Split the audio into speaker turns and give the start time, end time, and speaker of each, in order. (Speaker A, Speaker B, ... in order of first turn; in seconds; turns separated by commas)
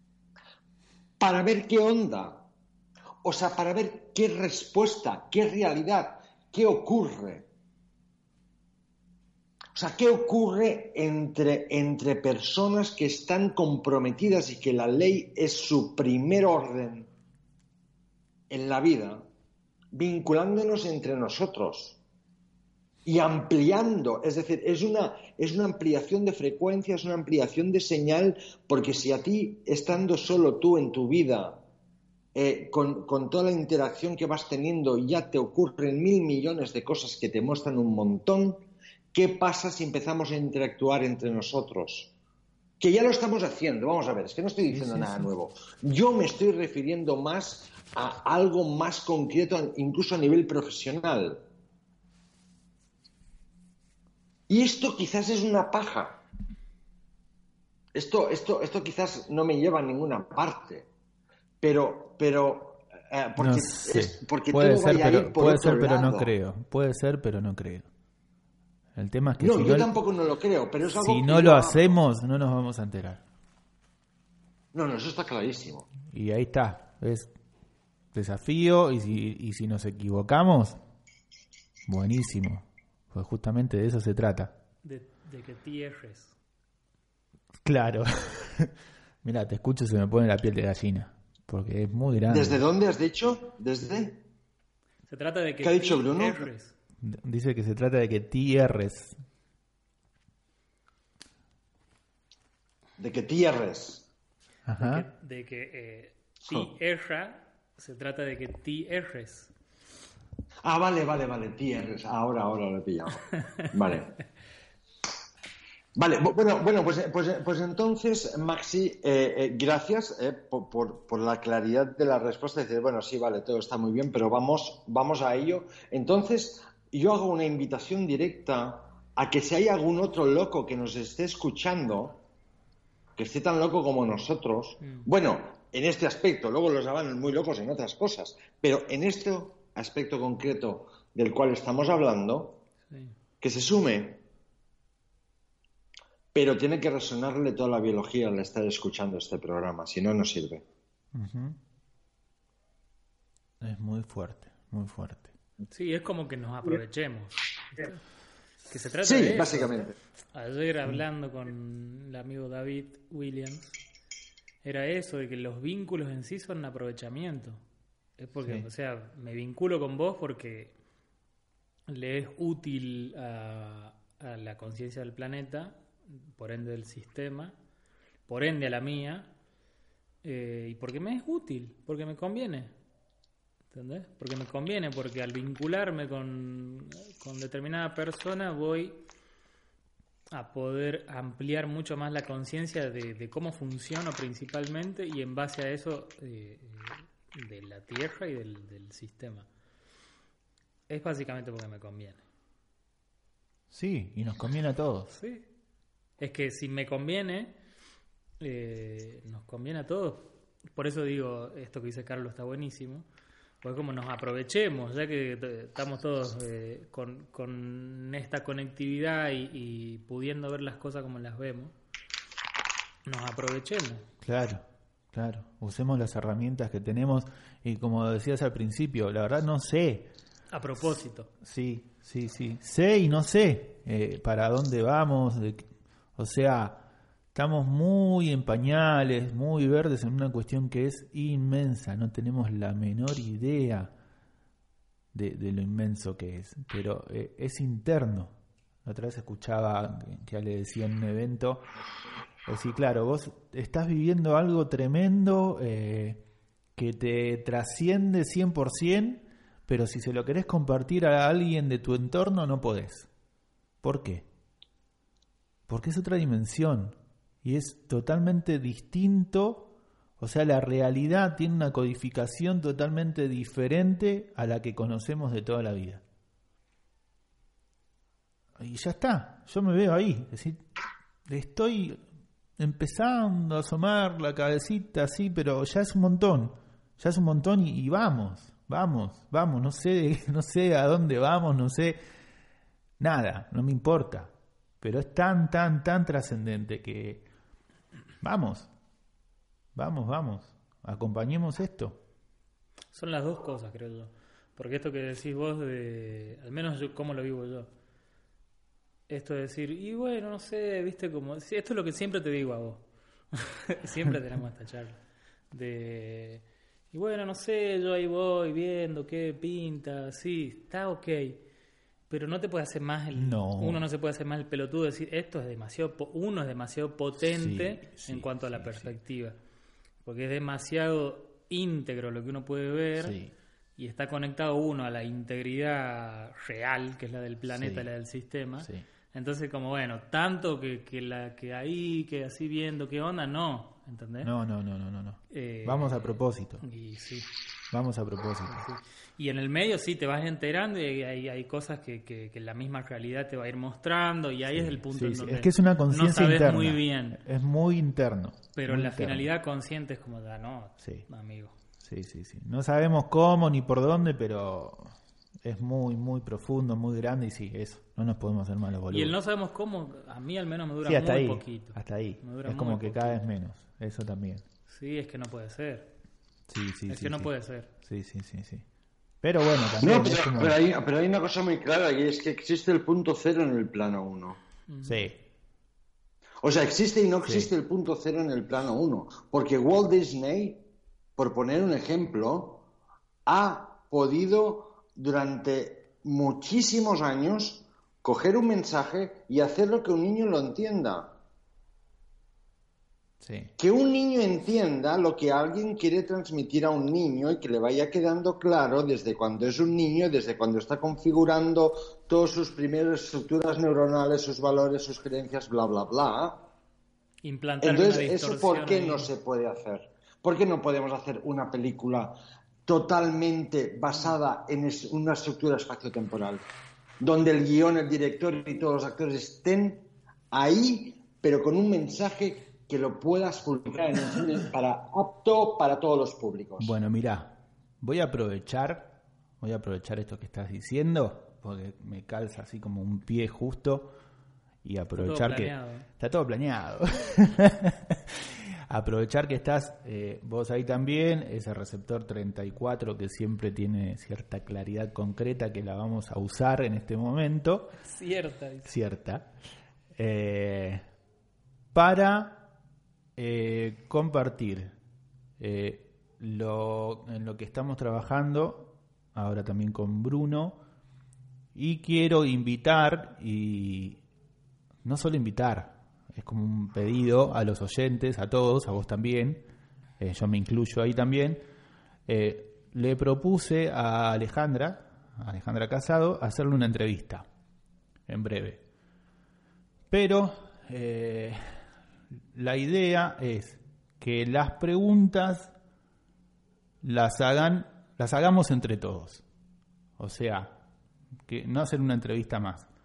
Speaker A: 1.2-2.5, Speaker A: 3.2-7.5, Speaker A: 9.8-17.1, Speaker A: 18.5-19.3, Speaker A: 19.9-22.0, Speaker A: 23.1-31.6, Speaker A: 32.4-42.1, Speaker A: 42.8-51.4, Speaker B: 44.7-45.3, Speaker A: 54.5-56.2, Speaker A: 58.0-60.9, Speaker A: 61.6-66.3, Speaker B: 63.4-67.9, Speaker B: 69.0-69.9, Speaker A: 69.4-72.0, Speaker B: 70.8-73.2, Speaker A: 74.7-75.9, Speaker B: 76.1-77.3, Speaker B: 78.1-80.8, Speaker B: 81.9-84.6, Speaker C: 84.8-86.3, Speaker B: 87.6-88.7, Speaker B: 89.2-92.6, Speaker A: 92.3-94.2, Speaker C: 95.1-96.8, Speaker A: 95.6-96.5, Speaker B: 97.0-99.2, Speaker A: 103.0-104.1, Speaker B: 104.7-105.1, Speaker C: 104.8-109.5, Speaker A: 110.7-114.1, Speaker A: 116.0-132.2, Speaker A: 133.2-142.6, Speaker C: 142.9-143.2, Speaker A: 143.4-144.2, Speaker A: 146.3-150.7, Speaker B: 151.1-151.6, Speaker B: 153.6-155.3, Speaker C: 155.7-158.0, Speaker C: 158.7-163.7, Speaker A: 159.0-160.0, Speaker C: 164.6-167.6, Speaker C: 168.2-170.8, Speaker C: 171.9-177.6, Speaker C: 178.3-179.3, Speaker C: 180.2-182.7, Speaker C: 183.7-189.0, Speaker C: 190.3-199.5, Speaker C: 200.9-202.2, Speaker B: 203.7-205.2, Speaker C: 205.1-205.4, Speaker C: 206.2-207.6, Speaker C: 208.4-213.1, Speaker C: 213.6-221.7, Speaker C: 223.1-224.1, Speaker B: 224.2-230.1, Speaker C: 230.5-231.3, Speaker B: 230.8-243.9, Speaker B: 245.1-251.7, Speaker B: 252.5-256.2, Speaker B: 256.8-263.1, Speaker B: 263.8-264.3, Speaker B: 265.7-276.0, Speaker B: 278.6-280.6, Speaker B: 281.3-282.0, Speaker B: 282.6-292.0, Speaker B: 293.0-297.3, Speaker B: 298.2-298.7, Speaker B: 299.8-302.0, Speaker C: 302.9-307.7, Speaker C: 309.1-315.0, Speaker C: 315.5-321.4, Speaker C: 322.1-329.4, Speaker B: 323.1-323.9, Speaker B: 327.2-329.0, Speaker C: 330.0-333.2, Speaker B: 333.0-333.3, Speaker C: 333.8-344.3, Speaker B: 337.5-337.9, Speaker B: 338.6-338.9, Speaker B: 344.2-346.6, Speaker C: 345.3-347.3, Speaker B: 347.7-348.7, Speaker C: 348.5-357.2, Speaker B: 354.5-359.3, Speaker C: 358.6-361.6, Speaker B: 360.8-361.1, Speaker B: 361.8-369.2, Speaker C: 368.9-373.2, Speaker B: 370.8-374.4, Speaker C: 374.7-375.9, Speaker B: 376.5-378.6, Speaker C: 376.9-377.7, Speaker B: 379.2-380.6, Speaker A: 379.8-384.4, Speaker C: 384.7-385.0, Speaker B: 384.8-385.2, Speaker A: 386.4-390.6, Speaker B: 387.2-387.5, Speaker A: 391.2-392.7, Speaker A: 393.3-401.1, Speaker B: 403.2-403.5, Speaker A: 403.6-416.5, Speaker C: 417.2-419.1, Speaker A: 417.6-426.5, Speaker A: 427.0-436.7, Speaker B: 436.6-443.9, Speaker B: 444.6-457.7, Speaker C: 444.9-445.9, Speaker C: 457.9-458.7, Speaker B: 458.6-459.3, Speaker B: 460.0-460.8, Speaker B: 461.7-462.5, Speaker B: 463.2-464.8, Speaker B: 465.4-470.6, Speaker B: 471.6-474.0, Speaker B: 474.8-479.5, Speaker B: 480.0-481.4, Speaker B: 482.1-487.3, Speaker B: 488.1-488.6, Speaker B: 489.9-491.6, Speaker B: 492.3-495.5, Speaker B: 496.8-499.2, Speaker B: 500.0-500.6, Speaker B: 501.3-502.7